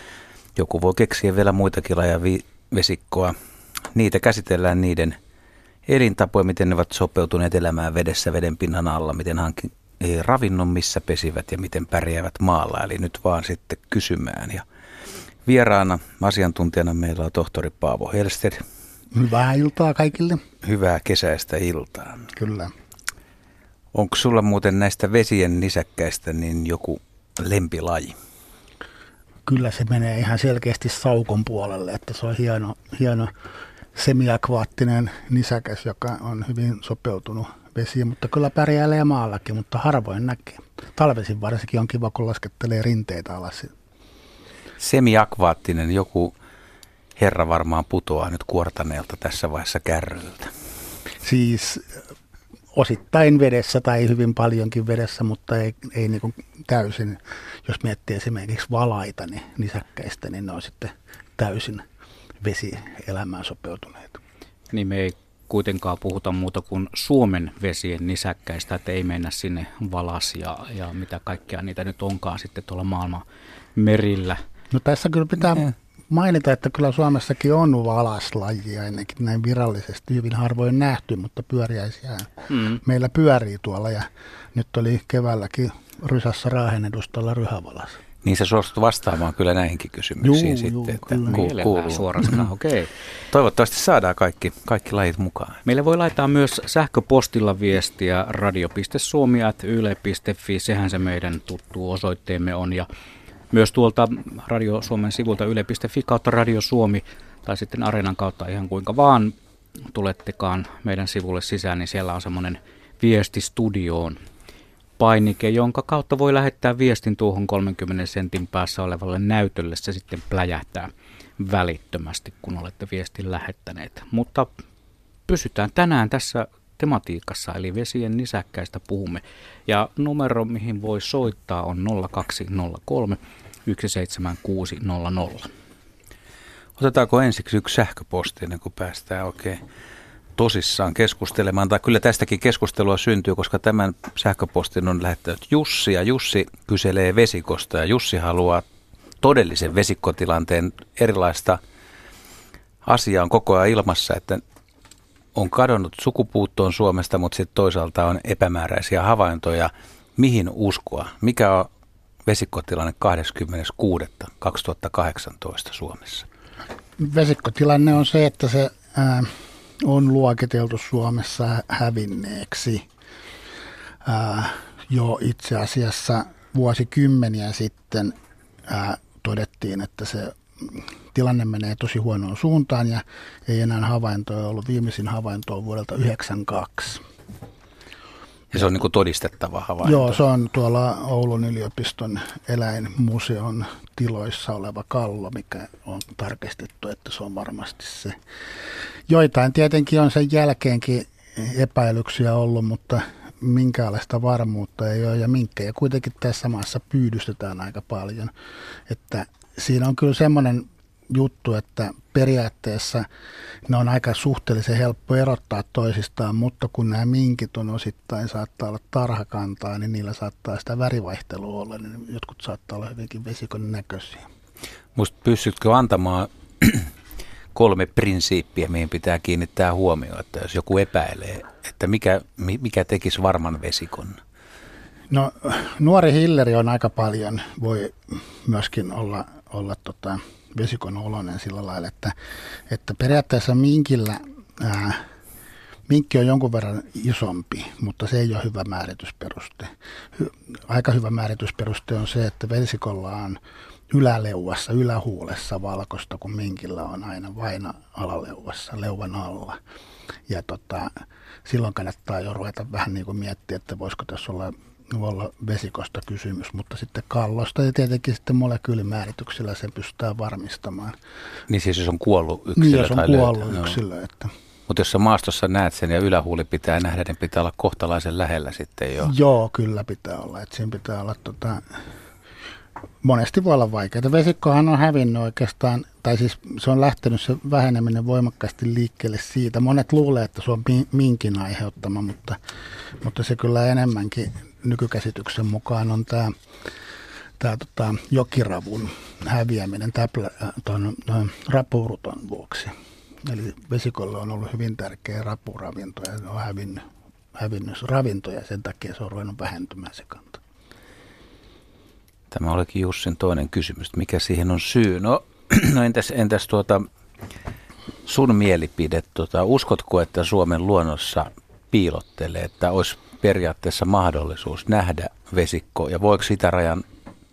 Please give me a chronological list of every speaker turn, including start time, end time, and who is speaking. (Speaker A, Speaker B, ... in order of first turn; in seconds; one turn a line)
Speaker A: 0.6-3.4
Speaker A: 3.9-5.2
Speaker A: 5.9-14.7
Speaker A: 15.5-18.6
Speaker B: 19.1-20.4
Speaker A: 20.6-22.3
Speaker B: 22.4-22.7
Speaker A: 23.9-28.2
Speaker B: 29.5-33.3
Speaker B: 33.9-43.7
Speaker A: 44.8-46.3
Speaker A: 47.2-50.5
Speaker B: 51.2-52.0
Speaker B: 52.7-61.9
Speaker B: 62.4-64.2
Speaker C: 64.7-73.2
Speaker C: 73.8-74.4
Speaker B: 74.7-88.0
Speaker C: 82.5-82.8
Speaker A: 88.2-92.5
Speaker B: 90.2-91.5
Speaker C: 91.3-92.9
Speaker A: 93.3-95.6
Speaker C: 95.7-102.9
Speaker C: 103.5-109.3
Speaker C: 109.9-114.2
Speaker C: 115.0-124.5
Speaker C: 125.3-135.5
Speaker A: 136.8-139.6
Speaker A: 140.4-148.7
Speaker A: 149.2-151.6
Speaker A: 152.8-154.4
Speaker A: 155.3-161.7
Speaker A: 162.3-166.3
Speaker B: 167.0-172.9
Speaker B: 174.1-178.2
Speaker B: 178.7-187.0
Speaker A: 188.5-190.2
Speaker B: 189.8-198.2
Speaker B: 199.1-208.3
Speaker B: 208.9-213.1
Speaker B: 213.7-224.3
Speaker A: 224.9-226.9
Speaker A: 227.6-234.2
Speaker B: 235.1-242.1
Speaker B: 242.7-245.1
Speaker B: 245.9-259.6
Speaker B: 260.3-260.9
Speaker B: 261.4-271.0
Speaker A: 271.5-273.8
Speaker B: 272.6-274.3
Speaker A: 274.7-279.1
Speaker B: 279.0-281.7
Speaker B: 283.0-292.4
Speaker B: 293.0-296.4
Speaker B: 297.4-310.4
Speaker A: 312.3-316.9
Speaker A: 318.1-326.9